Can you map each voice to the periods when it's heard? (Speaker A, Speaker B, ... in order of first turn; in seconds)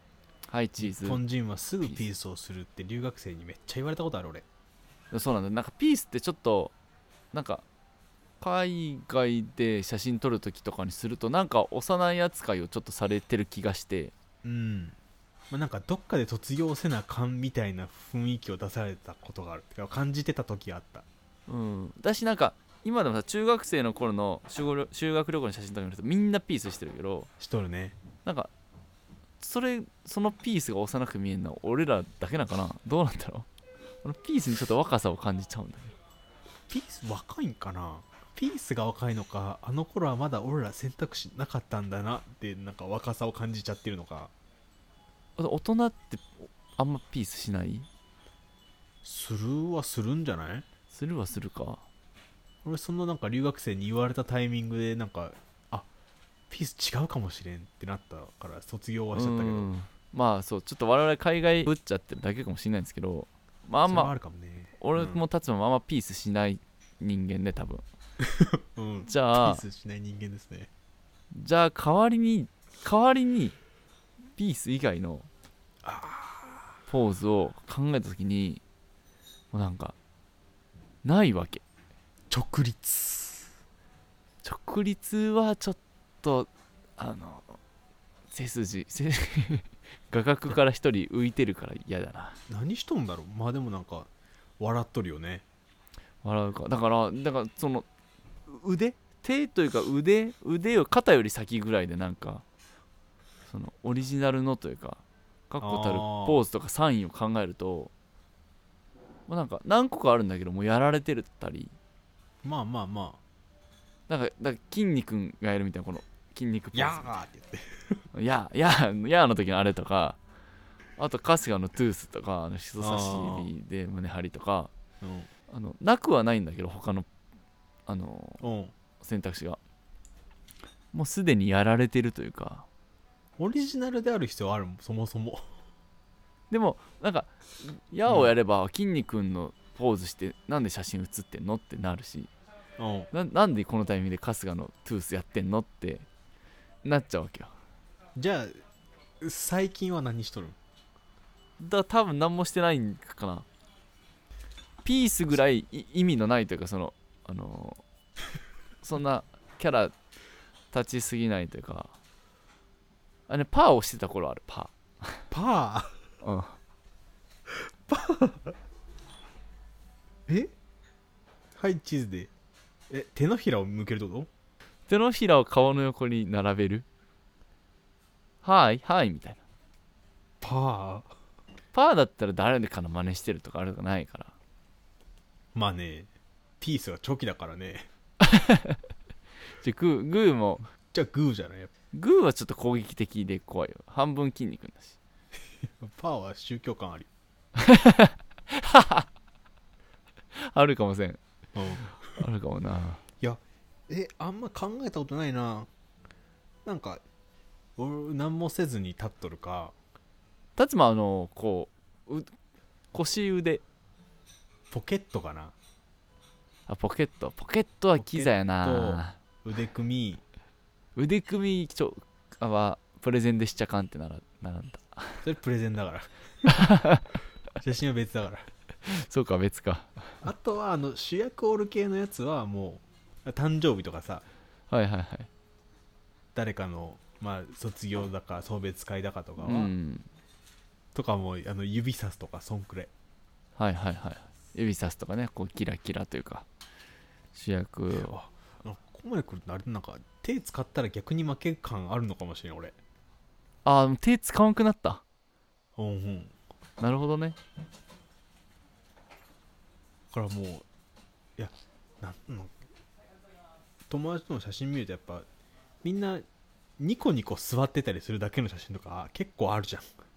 Speaker A: 0.5-1.2, 5.1-6.7, 7.3-7.6, 8.4-14.1, 21.5-27.3, 28.2-28.5, 29.4-33.5, 34.0-36.0, 45.4-47.9, 50.9-51.8, 59.1-64.1, 64.8-67.8, 69.1-69.6, 71.3-73.6, 74.4-75.3, 76.9-78.6, 79.5-80.0, 81.0-81.6, 84.4-87.6, 88.3-92.4, 96.2-97.9, 98.5-102.4, 103.5-107.9, 109.3-111.7, 114.1-117.1, 118.1-120.2, 121.0-124.7, 125.5-127.1, 127.9-128.4, 129.0-129.6, 130.9-132.7, 136.5-142.3, 143.1-146.1, 146.8-147.5, 151.6-153.5, 154.8-157.8, 158.8-159.9, 160.7-161.9, 163.3-165.2, 166.2-166.6, 174.9-176.9, 178.4-179.4, 181.7-184.3, 188.2-188.8, 189.6-190.7, 191.9-195.0, 197.6-199.1, 200.3-201.2, 201.9-203.0, 210.6-212.3, 212.9-213.6, 216.7-219.2, 221.0-225.2, 226.5-227.1, 228.8-230.2, 234.7-235.3, 239.4-240.1, 243.6-246.5, 247.3-248.2, 253.6-255.0, 256.8-257.4
Speaker B: 0.8-4.5, 14.4-15.0, 15.5-21.1, 27.4-28.0, 36.7-44.3, 49.0-50.7, 52.6-55.9, 56.5-59.7, 63.9-65.2, 68.2-70.7, 75.8-76.8, 82.3-83.5, 92.5-95.5, 105.6-106.4, 112.4-113.2, 116.7-118.0, 122.8-123.5, 125.0-125.3, 128.4-128.7, 133.4-135.5, 138.1-138.3, 142.8-143.1, 148.2-148.6, 149.2-150.6, 165.3-165.9, 167.5-168.6, 170.3-170.5, 171.6-172.3, 172.9-174.3, 180.4-181.1, 185.5-187.9, 190.9-191.7, 195.6-197.1, 201.6-201.9, 203.2-205.7, 206.7-207.0, 207.8-209.7, 214.7-215.6, 218.0-220.2, 225.2-226.1, 227.6-228.5, 230.2-234.2, 236.3-239.7, 240.9-242.9, 247.9-252.8, 255.8-256.3, 260.1-260.7, 261.4-262.6, 263.9-265.3, 265.8-266.2, 266.8-269.9